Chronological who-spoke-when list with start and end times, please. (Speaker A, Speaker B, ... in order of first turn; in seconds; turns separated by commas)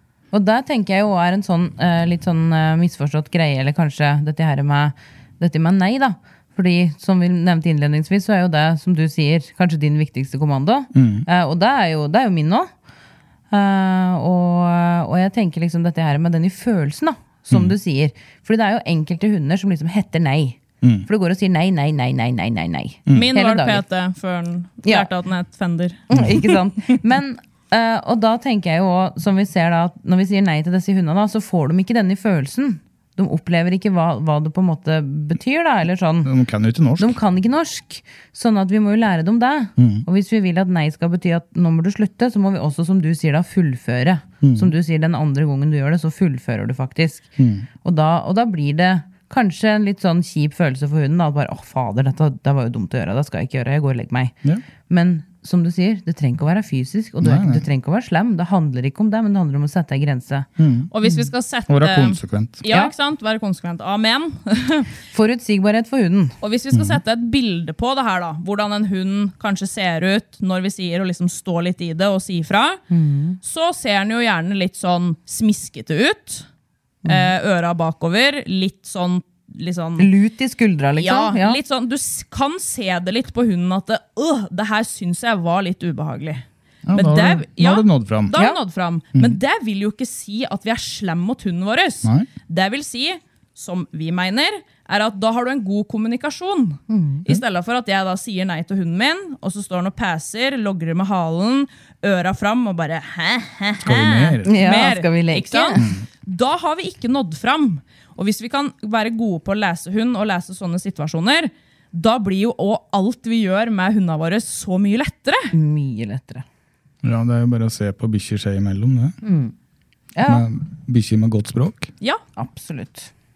Speaker A: 0.3-12.7, Speaker B: 10.9-11.3, Speaker A: 13.5-23.8, Speaker B: 20.8-21.1, Speaker B: 23.1-23.3, Speaker C: 23.1-26.0, Speaker A: 26.1-36.3, Speaker B: 36.2-37.1, Speaker A: 37.0-47.2, Speaker B: 39.8-40.0, Speaker B: 44.4-44.7, Speaker B: 47.4-47.7, Speaker A: 47.8-60.5, Speaker B: 57.2-57.6, Speaker B: 60.6-60.9, Speaker C: 60.9-64.9, Speaker B: 61.7-62.6, Speaker A: 65.1-66.3, Speaker C: 66.4-72.8, Speaker B: 66.7-67.0, Speaker A: 72.9-73.4, Speaker C: 73.4-76.5, Speaker A: 77.0-77.3, Speaker C: 77.0-80.1, Speaker A: 80.0-81.6, Speaker C: 81.0-86.4, Speaker B: 86.8-88.3, Speaker C: 86.9-115.5, Speaker A: 96.9-97.2, Speaker B: 103.8-104.5, Speaker A: 104.5-105.8, Speaker B: 105.8-106.0, Speaker A: 115.5-116.4, Speaker B: 117.0-119.2, Speaker A: 119.2-119.5, Speaker A: 120.1-120.5, Speaker B: 120.2-121.9, Speaker A: 122.4-123.1